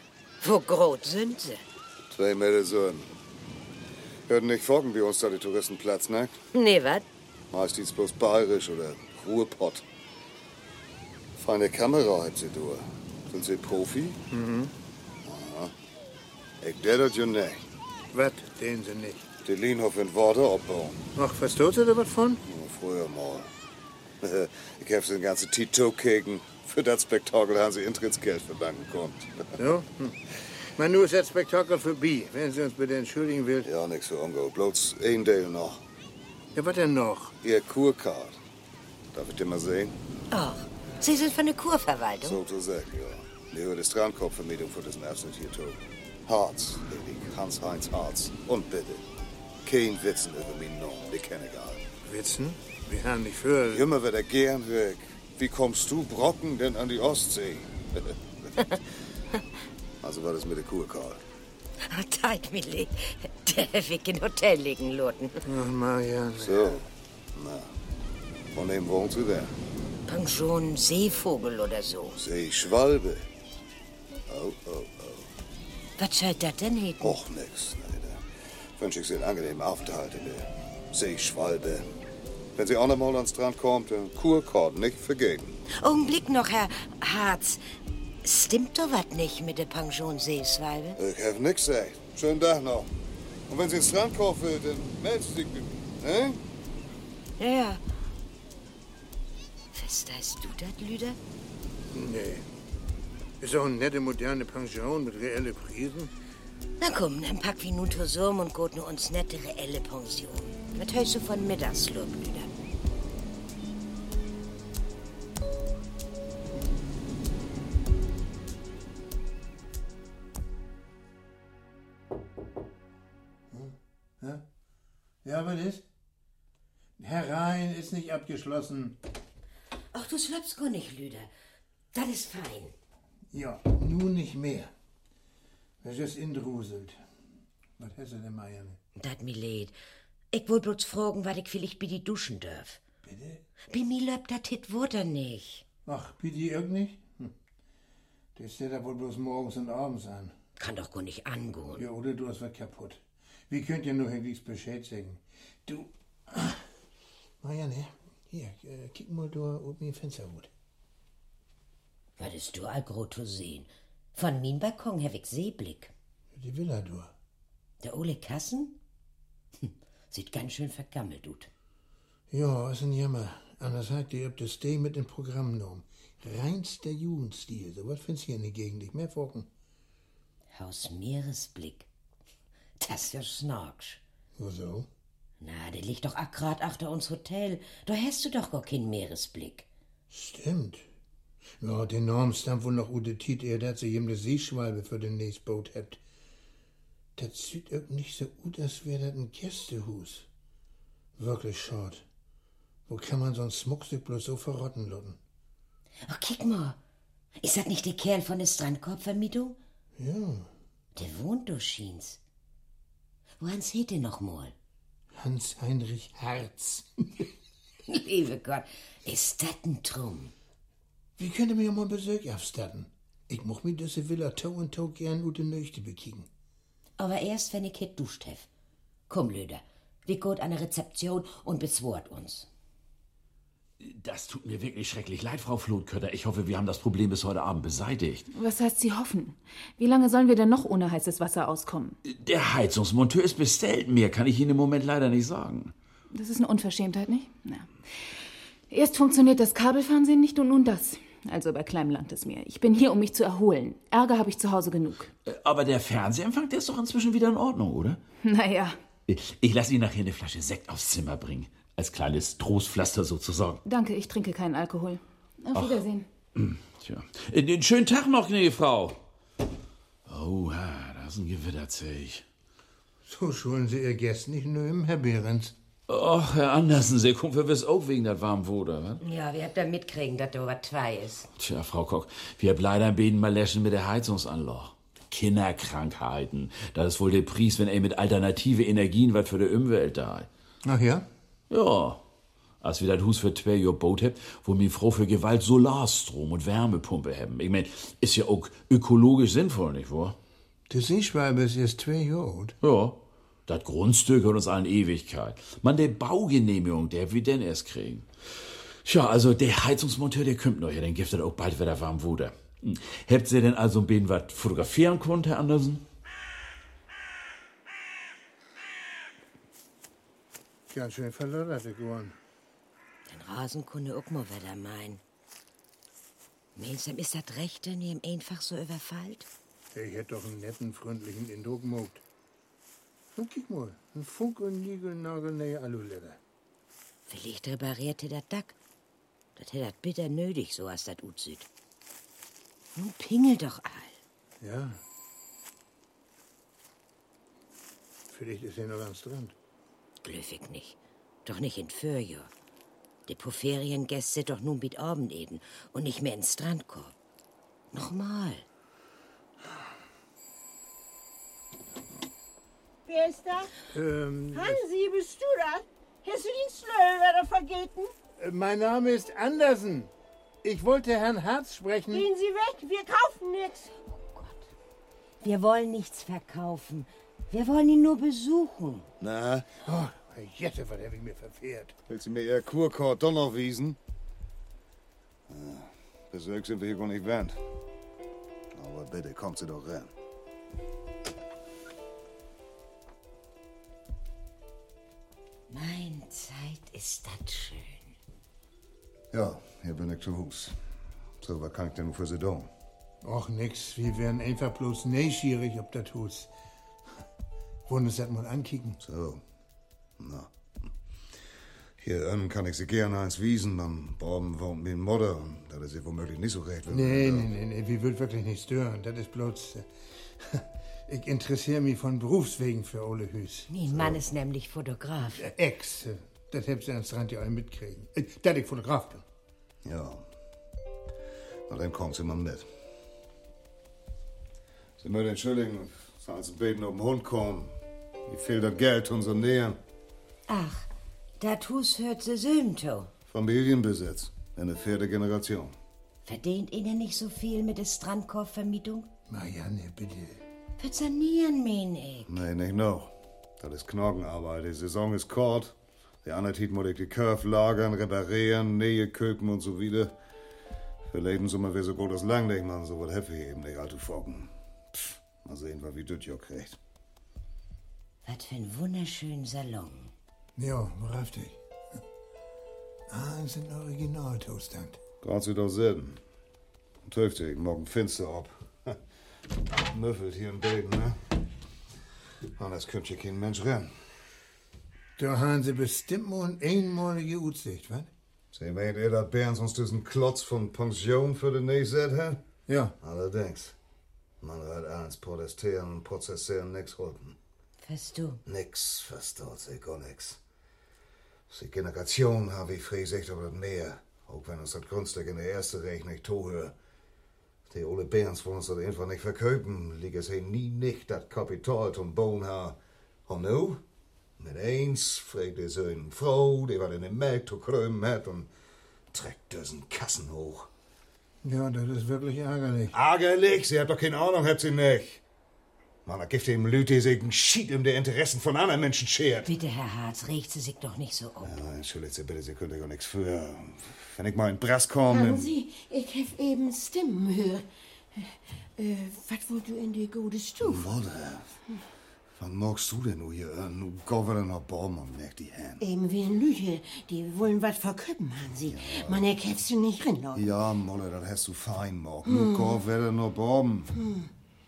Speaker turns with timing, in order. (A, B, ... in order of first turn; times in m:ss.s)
0:00.4-0:01.6 A
0:02.1-0:03.1 B
0:04.3-0:06.4 B
0:06.5-0:07.0 A
0:07.5-0:09.8 B
0:11.4-0:14.2 B
0:14.3-0:14.7 C
0:15.2-0:15.7 B
0:16.6-0:17.6 B
0:18.1-0:19.2 C
0:19.4-0:21.0 B
0:21.2-0:22.4 C
0:22.4-0:23.5 B
0:24.2-0:29.5 B
0:29.6-0:33.7 C
0:33.6-0:35.8 B
0:36.6-0:37.4 C
0:37.4-0:38.4 B
0:39.1-0:39.9 B
0:40.3-0:42.4 A
0:42.2-0:49.1 B
0:49.6-0:51.8 B
0:52.0-0:53.8 C
0:53.7-0:58.2 B
1:00.0-1:01.2 B
1:01.8-1:05.5 A
1:05.5-1:06.8 C
1:06.4-1:07.7 B
1:08.5-1:09.6 B
1:10.1-1:12.2 A
1:12.2-1:13.3 B
1:14.3-1:15.3 B
1:16.0-1:17.2 A
1:17.0-1:18.2 B
1:18.8-1:21.9 B
1:22.6-1:25.6 B
1:25.7-1:27.6 A
1:28.2-1:31.0 A
1:31.0-1:32.9 B
1:33.5-1:36.4 B
1:37.4-1:37.8 A
1:39.7-1:41.2 A
1:41.9-1:42.4 C
1:43.4-1:46.1 C
1:46.8-1:52.5 A
2:03.5-2:04.4 C
2:05.2-2:05.9 C
2:07.0-2:09.0 C
2:09.9-2:11.3 A
2:11.9-2:12.8 A
2:13.3-2:14.7 C
2:15.8-2:17.0 C
2:17.8-2:18.8 C
2:19.0-2:19.8 A
2:20.3-2:22.8 A
2:23.0-2:23.4 C
2:23.7-2:25.6 A
2:25.9-2:27.3 C
2:28.4-2:30.3 C
2:30.6-2:31.9 A
2:31.8-2:36.6 C
2:37.4-2:40.5 C
2:42.2-2:45.9 A
2:46.3-2:47.1 C
2:47.8-2:48.8 A
2:49.6-2:51.5 A
2:52.3-2:59.5 C
3:00.5-3:01.9 A
3:02.8-3:04.0 A
3:04.4-3:04.9 C
3:05.4-3:09.7 A
3:10.1-3:10.8 C
3:11.6-3:16.0 C
3:17.2-3:20.3 C
3:21.2-3:22.0 C
3:22.9-3:25.2 C
3:26.1-3:26.8 A
3:27.4-3:29.6 A
3:30.0-3:30.5 C
3:30.9-3:32.2 A
3:33.4-3:34.5 A
3:35.2-3:37.3 C
3:37.9-3:40.3 A
3:41.2-3:46.3 C
3:47.0-3:48.5 A
3:49.1-3:52.5 A
3:53.8-3:58.3 D
3:58.3-4:02.0 E
4:02.0-4:05.7 D
4:06.1-4:07.7 E
4:08.7-4:15.1 E
4:15.2-4:18.0 D
4:18.2-4:18.8 E
4:19.1-4:23.6 D
4:23.6-4:26.1 E
4:25.5-4:25.8 D
4:26.4-4:29.0 D
4:30.1-4:32.2 D
4:33.1-4:35.5 C
4:35.9-4:39.0 D
4:39.0-4:41.3 A
4:41.4-4:50.3 D
4:50.6-4:51.1 C
4:51.5-4:52.0 D
4:52.6-5:00.2 D
5:00.7-5:02.6 C
5:02.6-5:15.8 D
5:20.7-5:22.2 C
5:23.1-5:25.0 A
5:26.6-5:29.3 A
5:29.7-5:32.0 C
5:33.2-5:36.2 C
5:37.1-5:38.6 A
5:39.4-5:41.5 A
5:42.8-5:44.0 A
5:44.4-5:44.8 C
5:48.1-5:49.3 C
5:50.0-5:52.3 A
5:53.1-5:56.9 A
5:57.7-5:58.4 A
6:02.8-6:03.5 F
6:03.7-6:04.6 C
6:04.3-6:07.9 F
6:08.2-6:09.9 C
6:10.4-6:12.1 C
6:11.9-6:13.7 F
6:13.9-6:14.4 A
6:15.2-6:18.9 A
6:19.0-6:19.5 B
6:19.6-6:21.8 C
6:21.9-6:23.8 B
6:25.3-6:27.4 B
6:28.6-6:29.9 B
6:35.5-6:37.9 A
6:39.1-6:40.6 B
6:41.2-6:42.5 B
6:43.0-6:46.3 C
6:47.7-6:48.8 C
6:48.8-6:49.2 B
6:50.0-6:50.3 B
6:51.8-6:57.3 B
6:56.7-6:59.7 C
7:00.2-7:03.5 C
7:03.5-7:05.3 A
7:03.7-7:04.0 B
7:05.2-7:09.0 C
7:09.6-7:10.0 B
7:11.5-7:12.5 B
7:14.8-7:17.5 B
7:18.1-7:19.6 B
7:20.3-7:22.9 A
7:23.1-7:25.6 B
7:26.0-7:28.9 A
7:29.1-7:30.2 C
7:30.6-7:32.2 A
7:32.1-7:39.9 B
7:40.9-7:46.6 B
7:48.0-7:49.9 A
7:50.4-7:51.8 C
7:52.9-7:54.8 C
7:55.0-7:56.0 B
7:56.9-7:58.8 B
7:59.5-8:01.1 B
8:02.4-8:03.8 B
8:05.0-8:07.9 C
8:08.3-8:12.2 B
8:12.5-8:12.8 C
8:12.8-8:13.6 B
8:14.2-8:17.2 B
8:17.6-8:18.2 A
8:18.3-8:20.2 B
8:21.3-8:26.6 B
8:27.5-8:33.6 B
8:34.2-8:38.3 B
8:38.9-8:40.5 B
8:41.2-8:42.8 C
8:42.7-8:45.0 B
8:45.8-8:49.3 B
8:49.2-8:51.4 A
8:51.2-8:55.3 B
8:54.9-9:00.7 F
9:00.4-9:01.4 B
9:02.2-9:05.6 B
9:05.6-9:10.3 F
9:08.5-9:09.1 B
9:10.1-9:13.8 B
9:12.1-9:12.6 F